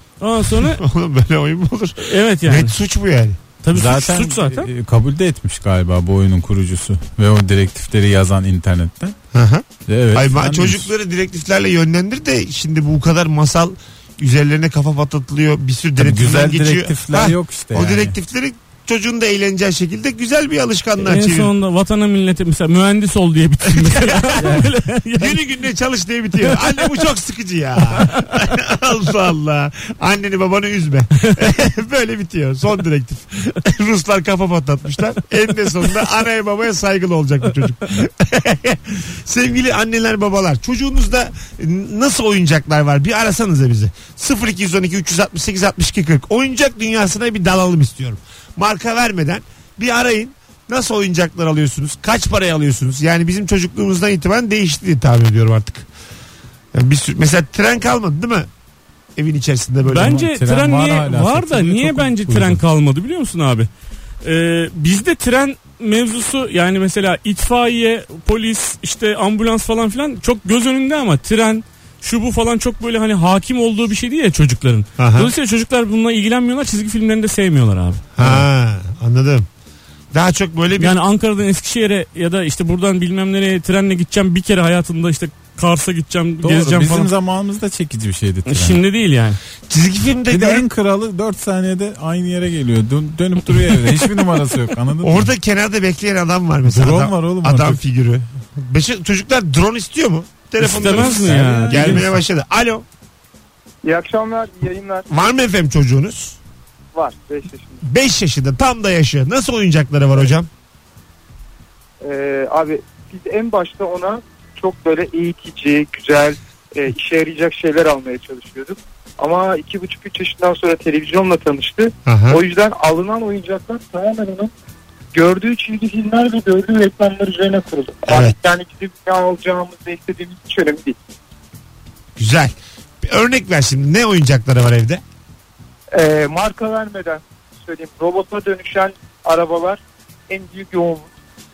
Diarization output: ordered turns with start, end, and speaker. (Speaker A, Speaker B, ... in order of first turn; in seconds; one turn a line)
Speaker A: 0.2-0.8
Speaker B: 0.6-3.4
Speaker A: 2.0-2.8
Speaker A: 3.6-4.7
Speaker C: 3.7-9.2
Speaker B: 9.3-21.5
Speaker C: 9.9-10.9
Speaker C: 16.0-18.2
Speaker A: 21.0-25.4
Speaker B: 23.7-24.6
Speaker C: 24.4-24.7
Speaker B: 25.2-55.9
Speaker A: 27.9-28.4
Speaker B: 56.7-58.5
Speaker B: 59.2-60.2
Speaker C: 59.9-62.6
Speaker A: 59.9-63.7
Speaker A: 64.2-78.1
Speaker B: 75.0-75.3
Speaker B: 78.2-79.5
Speaker B: 80.1-81.0
Speaker A: 80.8-87.1
Speaker C: 86.4-88.8
Speaker A: 88.5-89.4
Speaker B: 89.7-90.7
Speaker C: 90.3-95.3
Speaker B: 95.0-102.9
Speaker C: 96.7-97.8
Speaker A: 100.6-102.1
Speaker C: 100.7-102.2
Speaker D: 103.8-105.1
Speaker B: 105.1-106.4
Speaker D: 106.9-107.8
Speaker B: 107.8-110.5
Speaker D: 112.0-124.5
Speaker B: 122.1-122.4
Speaker D: 125.1-131.0
Speaker B: 128.1-128.3
Speaker B: 132.2-135.0
Speaker D: 135.9-141.1